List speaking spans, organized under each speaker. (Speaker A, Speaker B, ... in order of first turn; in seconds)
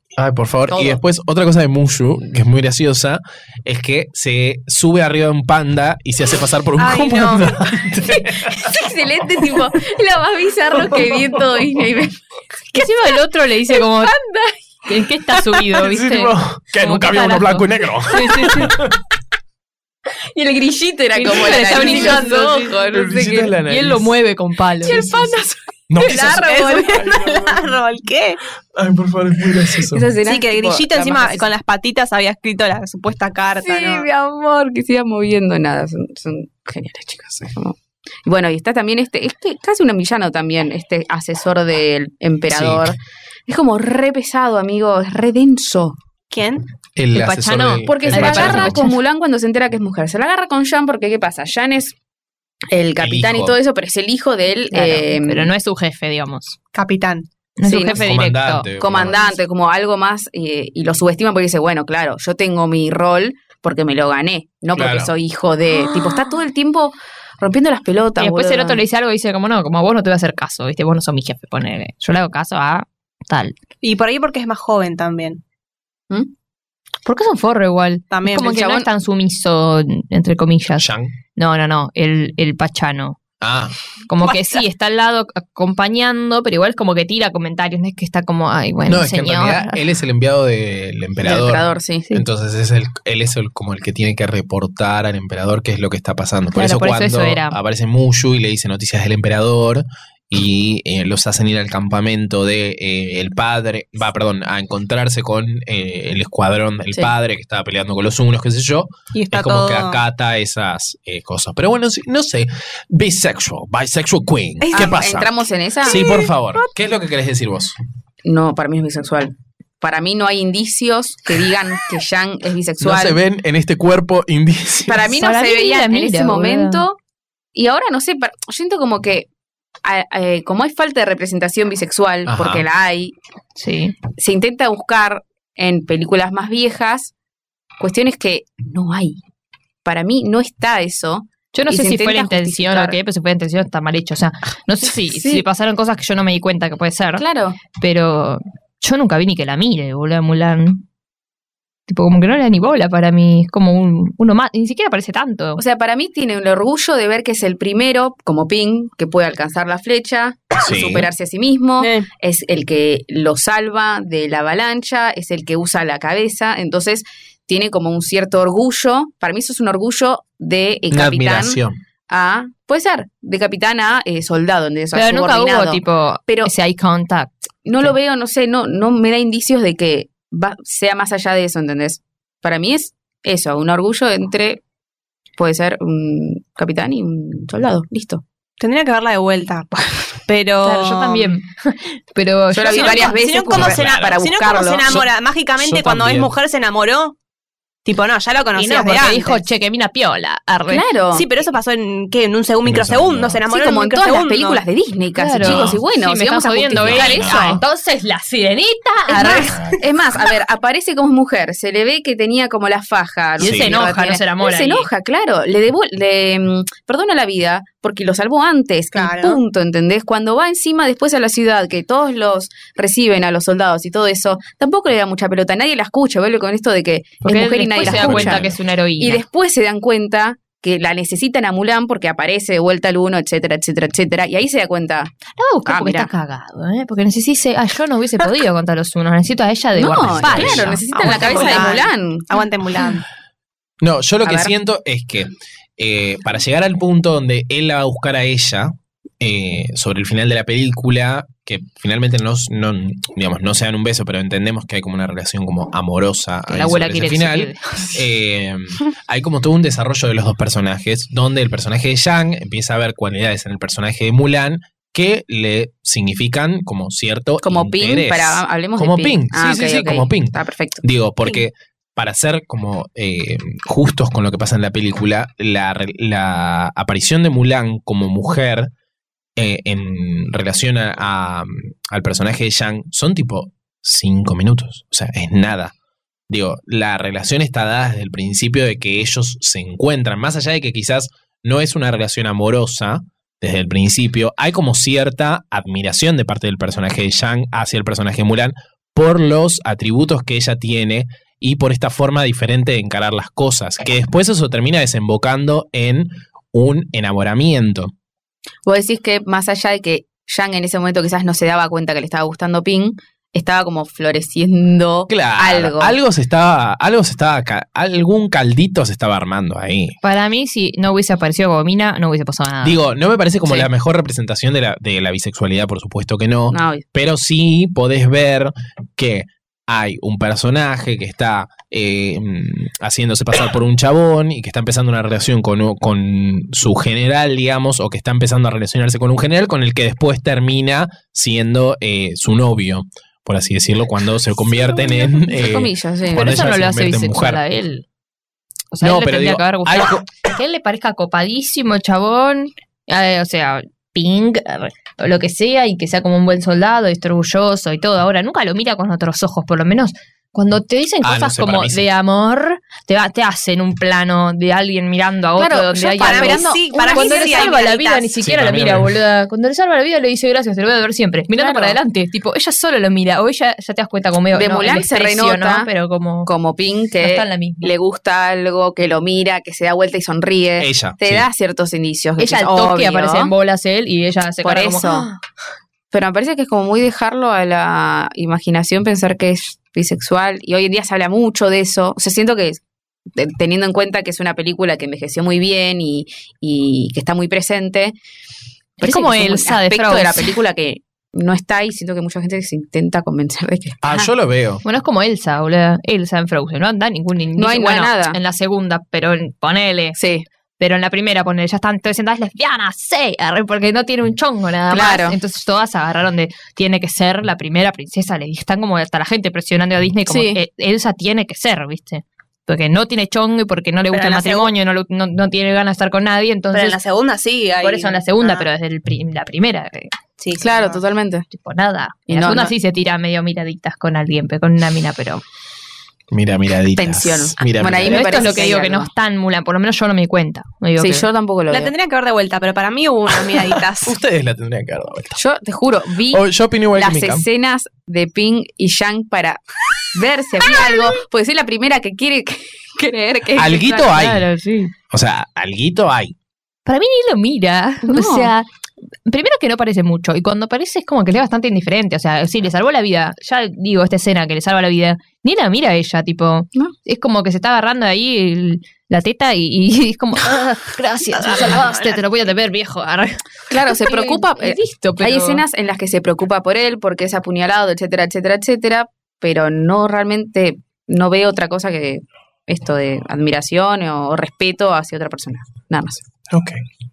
Speaker A: 0.2-8.7, 10.8-11.4, 15.8-19.0, 22.8-24.1, 25.9-27.8, 28.7-30.1, 42.5-43.0, 47.0-48.8, 53.0-53.5, 57.9-59.3, 64.7-65.1, 80.8-81.1, 83.4-83.7, 88.9-117.8, 122.8-125.1, 132.2-132.7, 160.6-161.1, 170.9-171.8, 193.5-194.2, 195.6-196.3, 202.6-203.4, 205.4-205.8, 206.7-207.6, 209.5-209.7, 213.4-213.8, 227.8-228.6, 240.1-240.8, 243.8-278.7, 279.4-285.7, 286.3-307.9, 315.1-319.9, 322.6-347.4, 348.8-350.1, 361.0-361.9, 368.2-368.9, 380.6-381.3, 403.8-404.6, 436.1-438.2, 443.3-445.2, 446.1-447.2, 453.3-454.3, 454.9-456.1, 486.3-486.6
Speaker B: 0.7-1.0, 8.1-12.2, 12.7-13.1, 13.7-14.6, 20.3-23.6, 24.8-26.9, 29.9-31.5, 33.6-43.0, 43.5-46.0, 47.9-52.0, 52.7-55.5, 57.6-58.1, 58.8-68.8, 78.3-78.9, 91.2-92.1, 114.7-116.0, 118.2-123.2, 124.9-127.0, 127.5-129.3, 129.8-133.2, 134.1-137.1, 137.8-139.2, 139.8-143.0, 145.1-145.4, 147.2-147.6, 155.6-176.5, 177.7-184.6, 185.4-188.2, 192.5-195.0, 200.7-201.3, 203.5-207.6, 209.1-228.4, 229.0-235.1, 235.7-236.1, 239.7-242.2, 244.2-244.5, 267.4-270.8, 308.6-316.0, 326.5-326.8, 344.8-346.4, 365.4-367.6, 371.3-371.8, 374.3-375.7, 376.3-383.3, 384.4-385.1, 385.9-392.6, 393.1-397.9, 398.8-404.1, 407.4-408.2, 410.0-410.2, 414.7-415.2, 420.1-420.4, 430.4-431.2, 432.1-432.5, 436.8-438.9, 440.8-441.7, 445.1-449.4, 449.9-454.0, 457.8-458.3, 473.5-486.0
Speaker C: 6.8-7.5, 21.4-22.7, 26.0-28.4, 30.2-34.1, 46.3-46.6, 56.7-57.3, 73.8-75.4, 78.1-78.6, 84.2-84.6, 109.1-110.0, 114.6-115.0, 115.8-116.7, 161.8-162.1, 188.6-191.3, 192.6-197.2, 197.8-199.4, 201.1-204.6, 218.9-219.4, 240.9-243.1, 366.0-368.1, 423.9-424.5, 426.5-428.5, 430.2-430.8, 441.5-444.0
Speaker D: 12.7-14.2, 14.8-18.8, 21.1-22.7, 23.6-25.2, 47.1-49.0, 54.7-56.6, 57.6-58.7, 68.2-73.5, 77.0-83.2, 84.1-89.8, 96.5-97.6, 125.1-126.8, 133.6-133.9, 141.5-150.8, 151.9-155.6, 174.9-177.9, 190.6-193.3, 198.5-200.8, 205.2-209.6, 213.4-214.9, 227.2-229.2, 235.4-241.8, 256.5-258.0, 320.0-322.8, 346.1-347.9, 348.7-376.3, 377.0-377.7, 382.2-385.2, 398.8-400.4, 404.6-410.0, 410.6-426.8, 427.6-429.9, 431.3-435.2, 437.8-441.1, 453.9-454.7, 456.6-458.4, 459.1-475.4